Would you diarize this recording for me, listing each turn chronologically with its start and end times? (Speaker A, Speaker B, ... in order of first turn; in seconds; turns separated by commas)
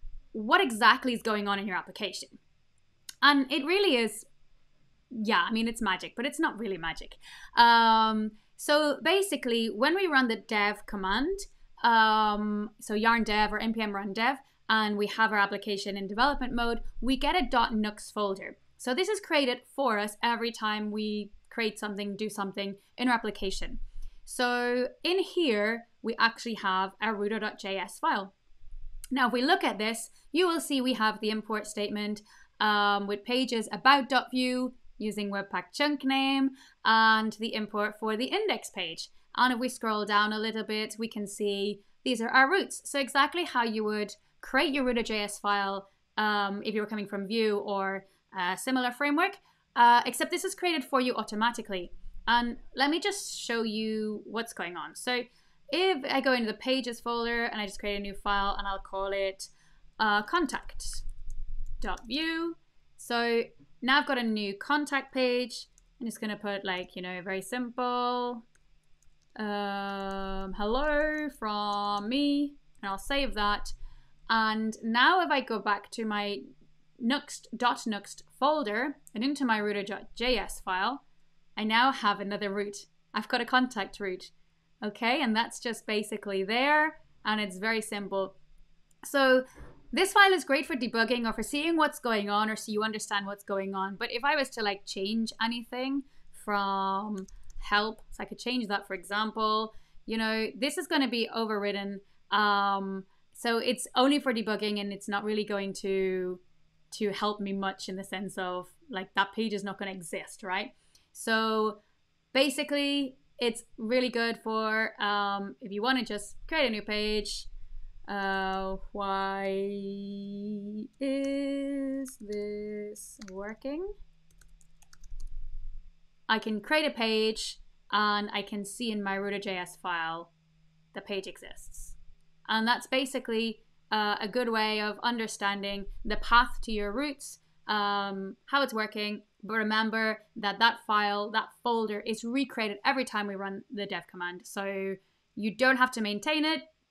Speaker A: 0.3-2.4, Speaker A: 3.2-4.3, Speaker A: 5.1-28.3, Speaker A: 29.1-61.0, Speaker A: 61.8-68.4, Speaker A: 69.4-73.8, Speaker A: 74.3-76.5, Speaker A: 77.0-81.0, Speaker A: 81.6-88.4, Speaker A: 89.0-111.8, Speaker A: 112.3-117.5, Speaker A: 118.1-123.9, Speaker A: 126.3-130.3, Speaker A: 130.9-146.7